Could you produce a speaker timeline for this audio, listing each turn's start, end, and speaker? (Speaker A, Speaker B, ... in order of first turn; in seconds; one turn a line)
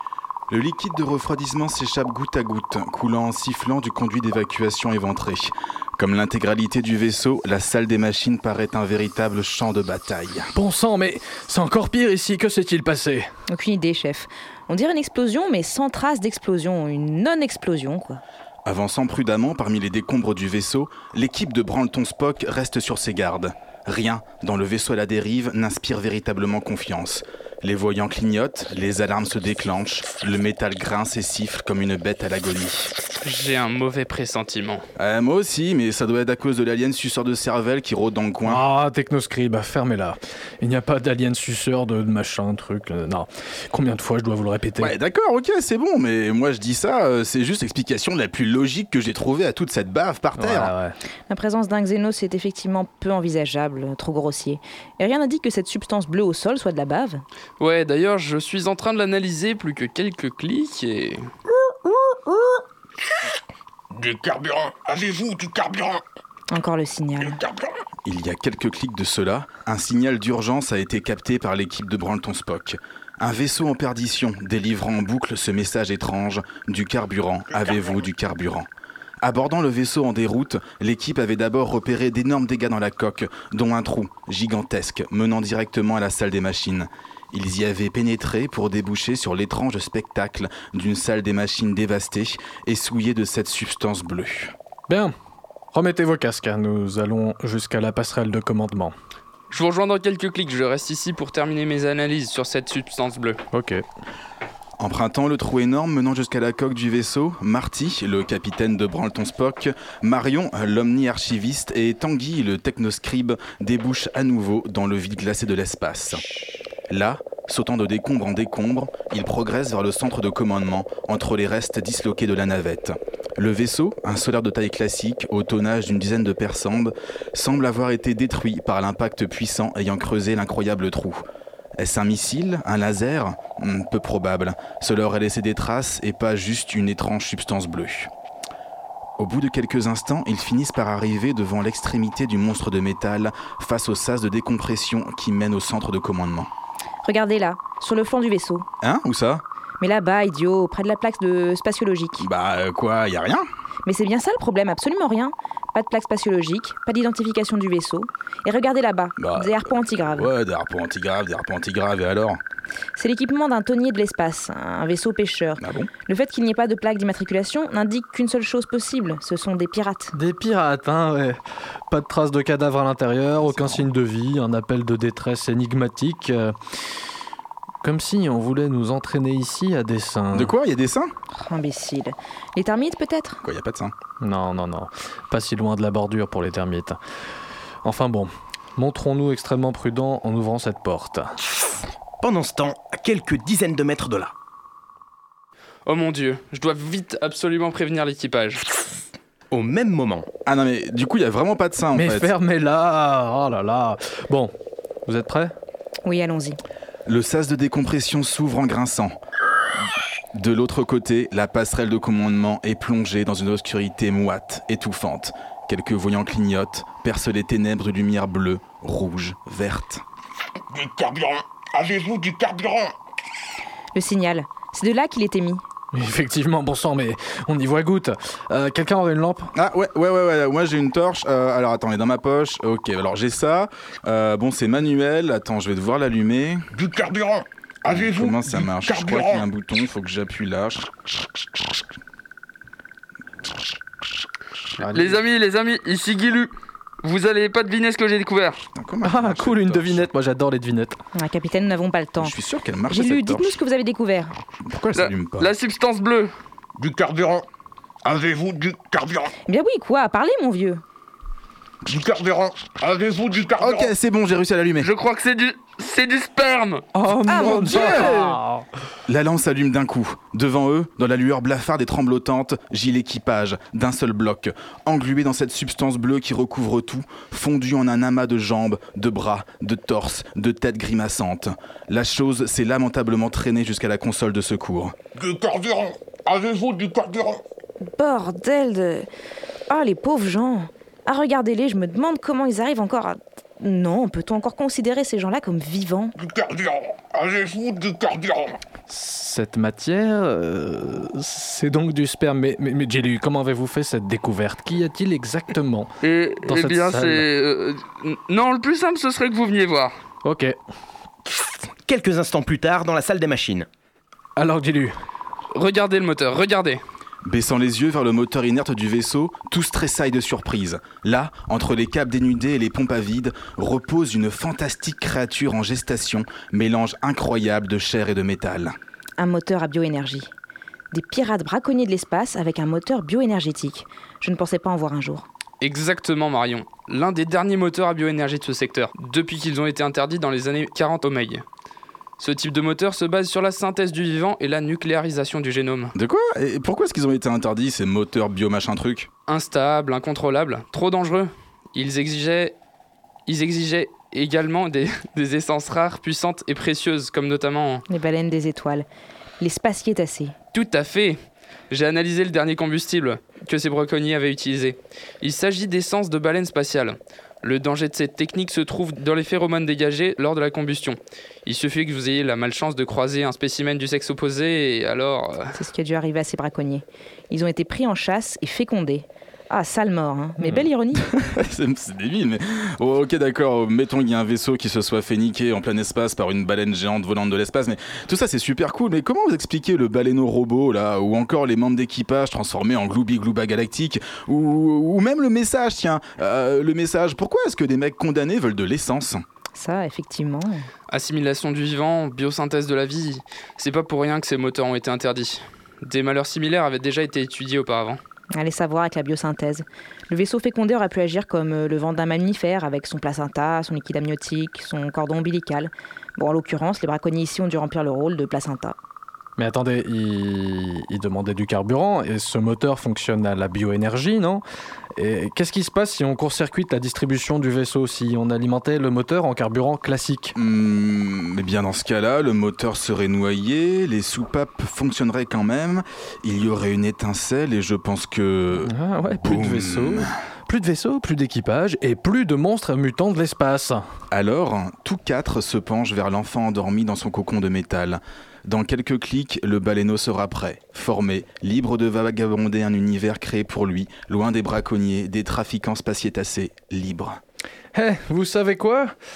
Speaker A: 0.5-10.5
Speaker B: 10.6-13.3
Speaker C: 13.5-18.2
Speaker A: 18.6-32.9
Speaker D: 33.2-34.9
Speaker A: 35.0-38.6
Speaker B: 38.4-45.0
Speaker A: 44.8-50.7
Speaker B: 50.4-51.0
Speaker C: 51.3-57.2
Speaker D: 57.6-61.3
Speaker C: 62.0-62.6
Speaker E: 63.9-66.0
Speaker C: 66.5-67.4
Speaker E: 67.3-67.8
Speaker A: 68.0-78.7
Speaker A: 79.2-94.5
Speaker B: 94.9-95.1
Speaker B: 95.7-98.9
Speaker D: 99.5-103.4
Speaker B: 103.5-103.8
Speaker A: 104.8-116.2
Speaker A: 116.9-131.2
Speaker A: 131.8-138.1
Speaker A: 139.2-146.5
Speaker C: 147.0-148.7
Speaker A: 148.8-149.4
Speaker C: 149.8-152.3
Speaker A: 152.2-153.4
Speaker C: 153.9-160.3
Speaker A: 159.2-162.4
Speaker C: 163.0-170.1
Speaker A: 165.6-165.9
Speaker B: 170.1-171.4
Speaker B: 171.9-176.6
Speaker A: 173.4-173.9
Speaker B: 177.8-180.5
Speaker A: 180.3-181.1
Speaker C: 181.4-183.4
Speaker A: 183.4-183.9
Speaker B: 184.2-187.0
Speaker B: 187.8-191.4
Speaker F: 192.2-194.3
Speaker D: 195.9-198.7
Speaker F: 199.5-200.2
Speaker A: 200.5-202.3
Speaker B: 201.9-204.5
Speaker B: 205.1-205.5
Speaker C: 206.1-206.6
Speaker A: 207.1-209.2
Speaker A: 210.3-220.0
Speaker E: 220.7-222.9
Speaker C: 223.9-225.6
Speaker B: 225.9-229.5
Speaker A: 229.6-236.7
Speaker E: 236.7-239.5
Speaker A: 237.9-240.9
Speaker B: 244.8-245.2
Speaker D: 244.9-248.6
Speaker A: 248.8-250.1
Speaker B: 249.0-251.0
Speaker C: 251.1-252.3
Speaker A: 252.2-253.6
Speaker C: 252.9-254.4
Speaker A: 254.6-255.5
Speaker D: 254.9-256.3
Speaker E: 256.8-257.5
Speaker E: 258.0-259.3
Speaker C: 259.5-260.8
Speaker E: 261.9-263.9
Speaker A: 263.6-264.9
Speaker D: 264.8-266.9
Speaker B: 266.9-268.6
Speaker C: 267.3-268.2
Speaker D: 267.7-268.1
Speaker A: 269.1-284.9
Speaker E: 285.1-287.4
Speaker C: 287.8-289.1
Speaker C: 289.7-296.1
Speaker E: 296.2-298.6
Speaker B: 298.9-305.9
Speaker D: 306.0-309.9
Speaker B: 306.4-307.3
Speaker B: 310.2-310.6
Speaker F: 311.9-313.7
Speaker B: 314.4-314.9
Speaker D: 315.5-316.8
Speaker A: 317.2-328.8
Speaker C: 329.2-330.3
Speaker C: 330.9-335.3
Speaker D: 335.6-341.4
Speaker D: 342.2-345.9
Speaker A: 346.0-349.1
Speaker D: 349.3-352.6
Speaker D: 353.3-357.8
Speaker C: 357.9-358.9
Speaker C: 359.4-360.4
Speaker D: 360.5-361.2
Speaker D: 361.7-375.5
Speaker C: 375.6-381.0
Speaker A: 381.0-399.2
Speaker C: 399.6-400.7
Speaker D: 400.9-408.0
Speaker C: 408.4-418.8
Speaker B: 419.4-424.4
Speaker B: 424.9-430.4
Speaker A: 430.4-440.1
Speaker B: 438.6-443.8
Speaker A: 444.1-457.2
Speaker B: 457.7-458.9